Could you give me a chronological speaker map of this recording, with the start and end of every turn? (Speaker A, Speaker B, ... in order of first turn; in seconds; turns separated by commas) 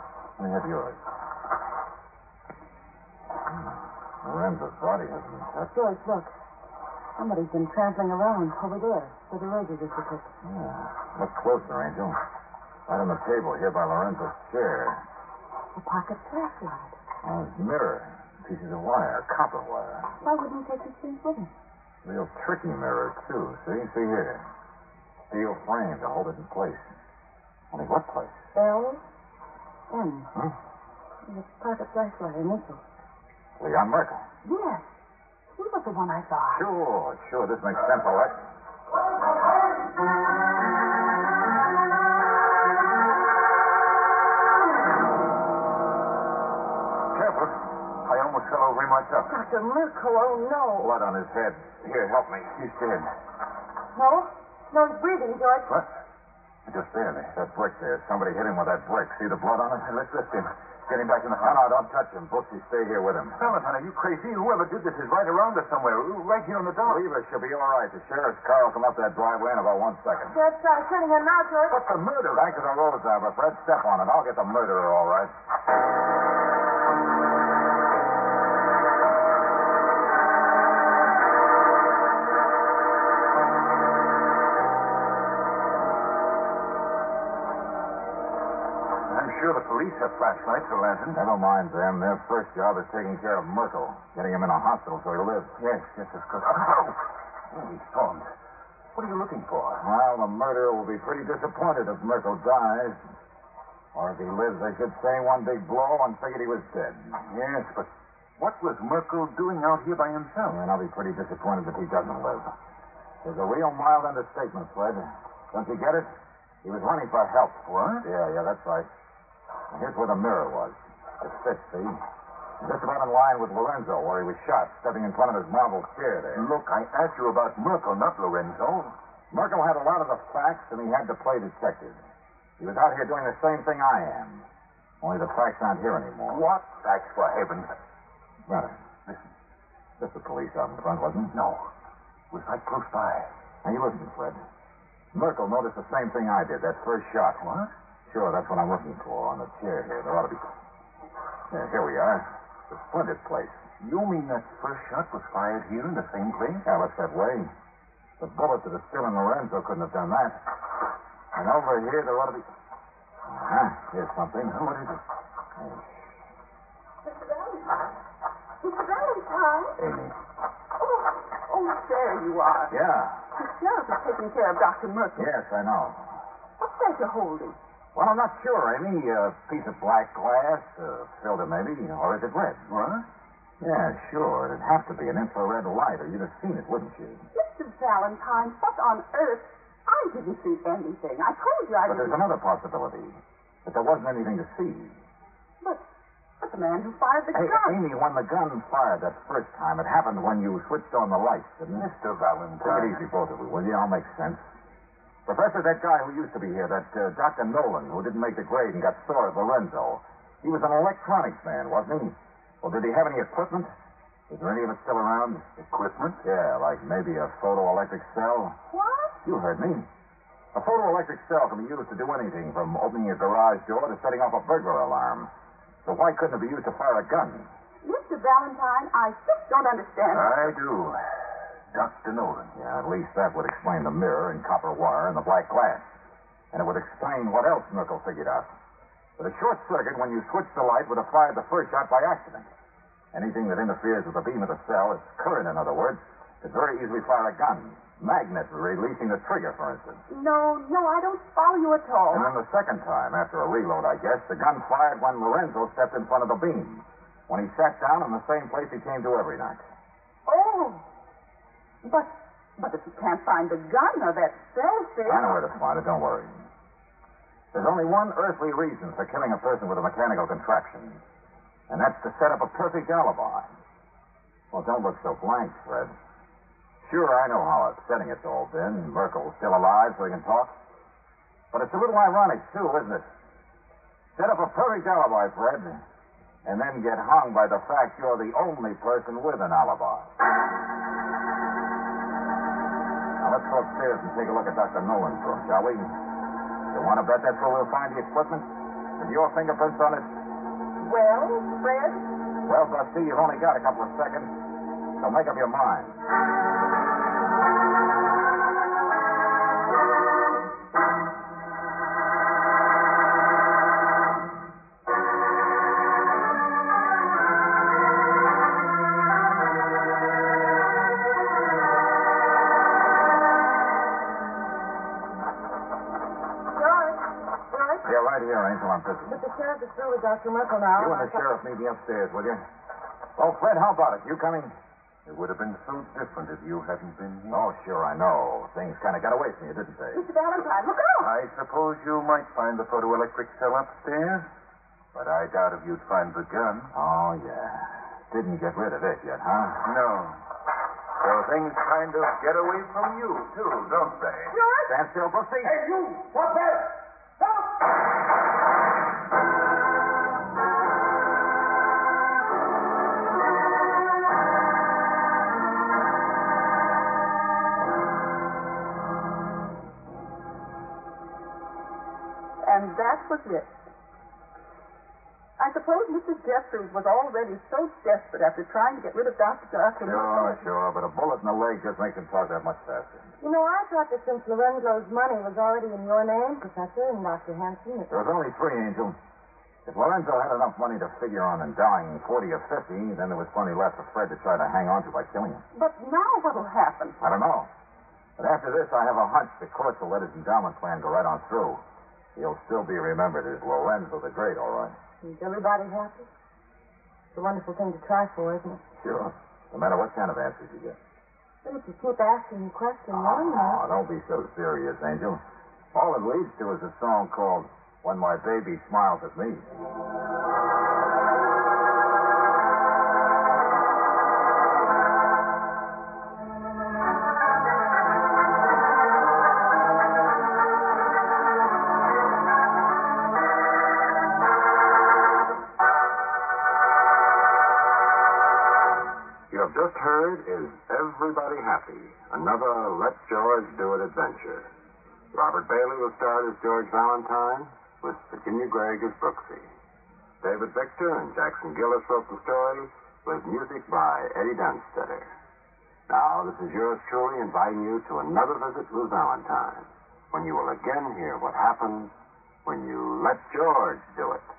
Speaker A: 0.4-1.0, Speaker A: 3.5-5.7, Speaker B: 5.7-6.3, Speaker B: 7.2-10.3, Speaker A: 10.4-12.2, Speaker A: 12.9-15.0, Speaker B: 15.8-16.9, Speaker A: 17.2-20.1, Speaker B: 20.2-21.5, Speaker A: 22.0-24.5, Speaker A: 25.3-26.9, Speaker A: 27.7-28.4, Speaker B: 28.5-29.0, Speaker B: 29.9-30.3, Speaker B: 31.2-32.8, Speaker A: 33.6-34.2, Speaker B: 34.4-34.8, Speaker B: 35.5-36.7, Speaker A: 36.5-38.4, Speaker A: 47.1-47.5, Speaker C: 48.0-49.3, Speaker B: 49.2-50.9, Speaker A: 50.7-52.6, Speaker C: 52.5-53.1, Speaker B: 53.9-55.8, Speaker C: 56.6-57.3, Speaker A: 57.3-59.9, Speaker C: 59.8-61.7, Speaker A: 61.4-63.5, Speaker C: 63.4-67.0, Speaker A: 66.8-70.4, Speaker B: 70.3-71.9, Speaker A: 71.8-75.3, Speaker C: 72.0-72.5, Speaker C: 89.1-91.2, Speaker A: 91.1-95.6, Speaker C: 95.6-98.3, Speaker C: 98.9-99.8, Speaker A: 99.8-103.0, Speaker A: 103.9-107.2, Speaker C: 107.3-110.6, Speaker A: 110.4-112.5, Speaker A: 113.2-116.1, Speaker A: 116.6-118.9, Speaker C: 117.7-118.1, Speaker A: 119.7-122.0, Speaker A: 122.6-126.5, Speaker C: 126.3-128.9, Speaker A: 129.3-132.0, Speaker A: 132.6-134.4, Speaker A: 135.0-136.4, Speaker C: 136.3-137.7, Speaker A: 138.5-138.7, Speaker A: 140.0-141.3, Speaker C: 141.3-141.7, Speaker C: 142.3-143.3, Speaker A: 143.6-144.4, Speaker A: 145.1-147.4, Speaker C: 147.4-147.7, Speaker A: 148.1-150.5, Speaker A: 151.5-153.6, Speaker C: 153.8-156.7, Speaker A: 156.6-157.5, Speaker A: 158.2-160.4, Speaker A: 161.3-162.5, Speaker A: 163.2-164.6, Speaker C: 164.4-165.0, Speaker A: 165.6-165.8, Speaker D: 167.0-167.8, Speaker D: 168.6-169.8, Speaker C: 169.8-170.1, Speaker D: 170.8-172.8, Speaker A: 172.7-173.2, Speaker D: 173.3-175.3, Speaker A: 175.2-176.2, Speaker D: 176.6-177.6, Speaker A: 177.9-182.6, Speaker C: 182.7-183.1, Speaker A: 183.6-187.2, Speaker D: 187.3-192.2, Speaker A: 191.8-195.0, Speaker D: 196.4-197.9, Speaker A: 197.3-201.9, Speaker C: 201.7-203.0, Speaker A: 202.6-204.4, Speaker A: 205.2-213.7, Speaker A: 214.3-215.5, Speaker C: 215.6-216.2, Speaker A: 216.2-218.6, Speaker D: 218.7-219.2, Speaker A: 219.2-219.9, Speaker A: 220.5-225.3, Speaker A: 225.8-227.5, Speaker D: 227.8-230.6, Speaker C: 230.1-231.0, Speaker C: 231.7-232.5, Speaker A: 232.5-235.9, Speaker A: 236.5-238.5, Speaker A: 239.2-242.5, Speaker A: 243.1-250.0, Speaker D: 250.1-252.3, Speaker A: 252.1-259.7, Speaker D: 260.2-260.9, Speaker D: 261.8-265.5, Speaker A: 265.1-266.5, Speaker A: 267.5-271.0, Speaker A: 271.7-273.5, Speaker A: 274.5-275.9, Speaker A: 276.8-280.6, Speaker A: 281.5-283.1, Speaker A: 284.1-285.8, Speaker A: 286.4-290.1, Speaker A: 293.2-295.9, Speaker A: 296.7-300.1, Speaker D: 300.8-302.1, Speaker A: 302.4-304.3, Speaker A: 305.0-306.0, Speaker B: 326.5-327.9, Speaker A: 327.8-329.2, Speaker B: 329.0-331.2, Speaker A: 330.7-332.4, Speaker A: 333.1-334.6, Speaker C: 335.1-337.4, Speaker A: 337.3-340.0, Speaker D: 339.9-341.1, Speaker C: 341.0-344.3, Speaker C: 344.9-346.7, Speaker A: 346.7-349.6, Speaker C: 349.6-350.2, Speaker C: 351.0-354.4, Speaker D: 354.3-354.8, Speaker A: 354.6-355.6, Speaker C: 355.6-356.7, Speaker D: 372.4-373.6, Speaker D: 375.4-380.4, Speaker A: 379.8-383.1, Speaker B: 383.2-388.0, Speaker A: 387.9-389.0, Speaker A: 389.6-395.4, Speaker D: 395.5-397.0, Speaker A: 397.0-397.5, Speaker A: 398.2-401.6, Speaker A: 402.1-404.8, Speaker B: 405.0-406.1, Speaker B: 407.1-408.6, Speaker A: 408.8-410.8, Speaker B: 411.4-413.6, Speaker A: 412.9-415.2, Speaker A: 415.7-419.5, Speaker E: 439.3-444.5, Speaker E: 445.1-449.5, Speaker E: 450.2-455.1, Speaker E: 455.9-461.9, Speaker E: 462.4-464.3